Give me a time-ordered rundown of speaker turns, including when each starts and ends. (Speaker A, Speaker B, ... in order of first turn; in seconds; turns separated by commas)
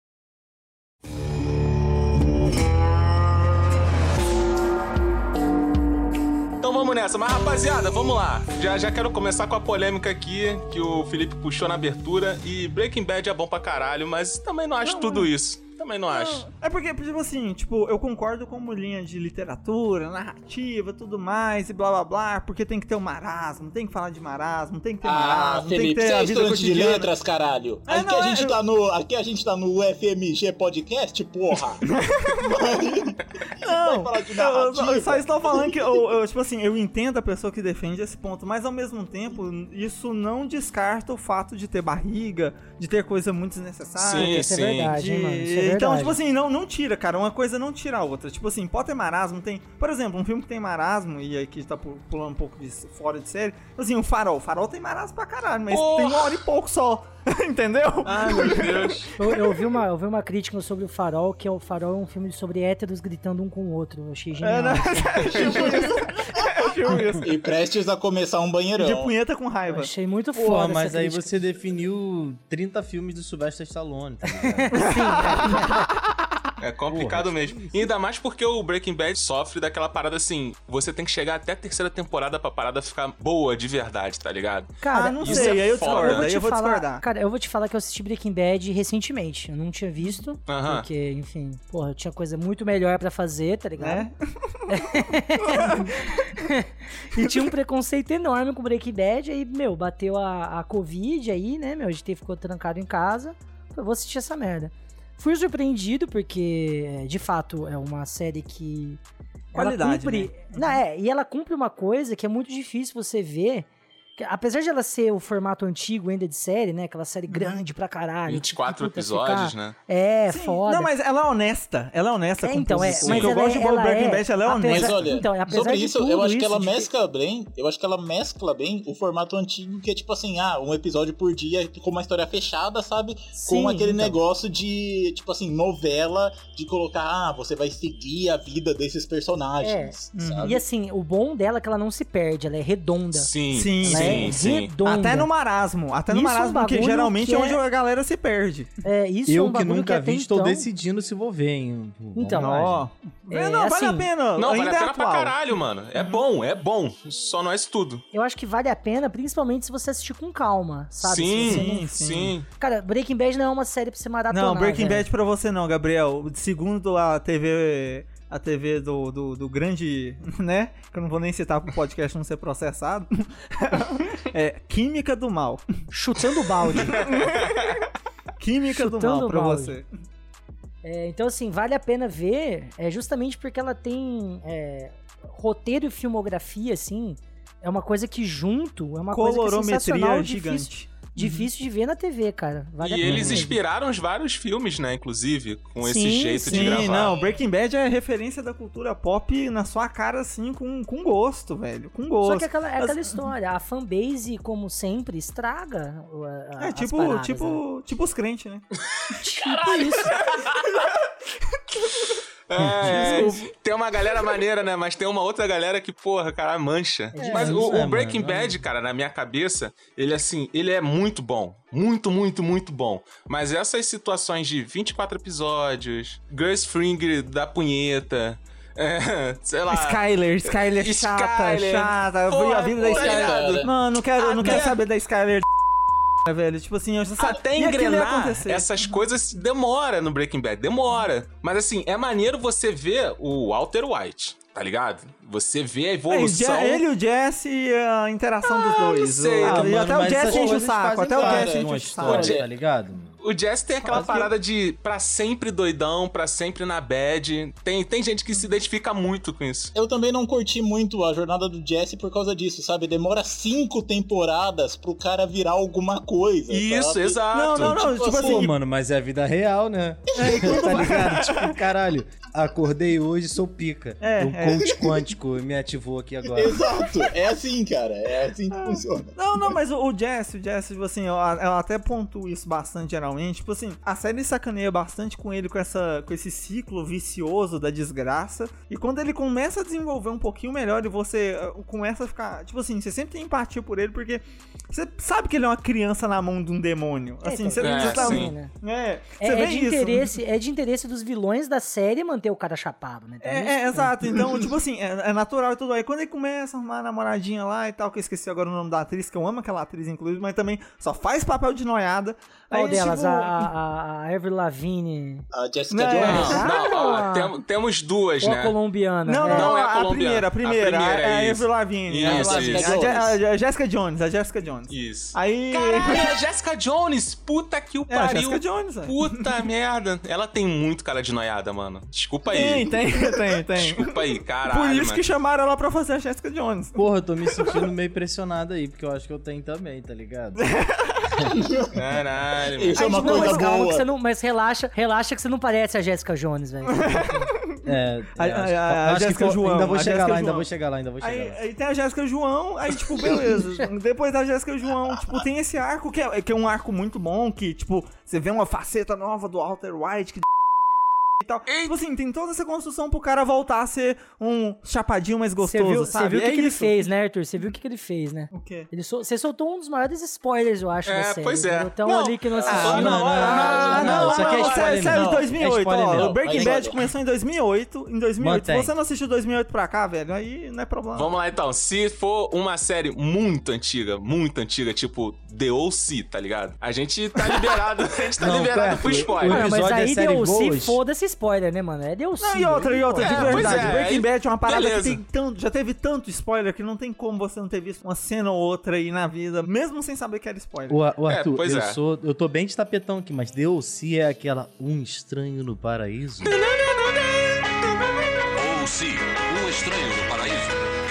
Speaker A: 6.6-16.4, Speaker B: 14.8-15.3, Speaker B: 16.1-27.1, Speaker C: 25.0-35.9, Speaker B: 27.9-28.6, Speaker B: 31.8-32.7, Speaker B: 33.6-59.1, Speaker A: 44.0-44.9, Speaker D: 44.1-46.2, Speaker A: 55.7-56.4, Speaker A: 58.0-59.1, Speaker D: 59.2-65.7, Speaker B: 64.4-67.3, Speaker C: 67.2-69.1, Speaker B: 68.8-69.9, Speaker D: 69.7-71.4, Speaker E: 70.3-74.9, Speaker D: 74.4-75.8, Speaker B: 74.8-75.8, Speaker A: 76.6-86.3, Speaker E: 76.9-77.9, Speaker D: 84.8-94.1, Speaker B: 84.9-87.0, Speaker A: 90.5-90.8, Speaker B: 93.8-94.8, Speaker D: 94.7-109.0, Speaker B: 95.4-96.2, Speaker B: 109.5-110.8, Speaker D: 109.5-120.9, Speaker B: 117.3-117.6, Speaker A: 118.3-119.8, Speaker B: 120.3-125.1, Speaker D: 122.4-126.9, Speaker A: 123.0-123.3, Speaker C: 124.7-140.6, Speaker D: 133.4-134.2, Speaker D: 139.6-143.3, Speaker B: 140.1-140.5, Speaker A: 143.1-144.7, Speaker B: 143.5-148.7, Speaker D: 143.8-145.3, Speaker E: 143.9-144.3, Speaker D: 146.1-147.6, Speaker D: 148.8-150.7, Speaker E: 149.3-152.8, Speaker D: 152.1-152.7, Speaker B: 152.3-156.2, Speaker D: 153.3-154.1, Speaker A: 154.4-158.0, Speaker D: 158.1-161.8, Speaker A: 161.0-162.5, Speaker B: 161.4-162.3, Speaker D: 162.6-165.1, Speaker B: 164.3-175.6, Speaker D: 175.9-177.0, Speaker B: 176.7-177.7, Speaker A: 177.1-177.5, Speaker B: 178.4-179.8, Speaker D: 178.7-179.8, Speaker D: 180.8-193.6, Speaker B: 189.1-191.5, Speaker A: 192.8-197.1, Speaker E: 193.0-193.5, Speaker D: 195.8-196.9, Speaker B: 196.4-203.2, Speaker D: 202.2-207.6, Speaker B: 206.6-208.6, Speaker D: 209.2-210.2, Speaker A: 210.2-210.6, Speaker A: 212.5-234.8, Speaker E: 212.6-212.9, Speaker B: 212.9-213.5, Speaker D: 217.1-217.7, Speaker E: 217.2-218.6, Speaker B: 229.7-235.5, Speaker C: 232.8-233.7, Speaker C: 234.4-234.7, Speaker B: 236.2-238.8, Speaker A: 237.2-246.8, Speaker B: 246.1-252.3, Speaker A: 248.4-250.1, Speaker E: 249.4-253.2, Speaker C: 251.0-252.4, Speaker A: 252.0-252.5, Speaker A: 253.2-259.7, Speaker B: 253.8-254.3, Speaker C: 259.7-268.5, Speaker A: 266.5-267.8, Speaker B: 267.3-268.5, Speaker E: 268.1-276.7, Speaker B: 270.1-271.6, Speaker C: 270.2-270.9, Speaker B: 274.0-274.7, Speaker C: 276.3-279.5, Speaker B: 278.6-300.1, Speaker D: 297.2-298.5, Speaker A: 297.6-298.3, Speaker D: 299.2-304.0, Speaker B: 303.2-313.5, Speaker D: 312.5-315.2, Speaker C: 315.3-316.4, Speaker B: 315.7-316.5, Speaker D: 316.0-317.4, Speaker A: 316.0-318.6, Speaker D: 318.2-319.5, Speaker B: 319.1-326.1, Speaker A: 319.2-322.7, Speaker C: 322.0-323.2, Speaker A: 324.7-332.7, Speaker B: 327.9-329.2, Speaker B: 332.3-336.8, Speaker A: 333.6-335.0, Speaker E: 336.8-340.4, Speaker B: 340.4-341.2, Speaker C: 341.4-341.7, Speaker A: 341.7-342.8, Speaker C: 342.4-343.9, Speaker D: 342.8-347.3, Speaker B: 342.8-343.4, Speaker B: 346.7-347.6, Speaker E: 347.6-351.4, Speaker B: 348.2-350.5, Speaker B: 351.0-360.3, Speaker B: 361.2-366.9, Speaker A: 361.5-361.7, Speaker D: 365.4-373.5, Speaker B: 368.3-368.7, Speaker A: 370.9-374.7, Speaker B: 372.5-381.1, Speaker E: 372.6-376.6, Speaker C: 374.3-376.8, Speaker E: 378.2-378.7, Speaker A: 380.9-389.5, Speaker E: 388.2-390.8, Speaker D: 389.3-393.7, Speaker B: 392.2-400.8, Speaker A: 393.0-395.0, Speaker E: 400.7-406.4, Speaker A: 401.1-401.8, Speaker A: 406.2-407.6, Speaker F: 408.3-410.7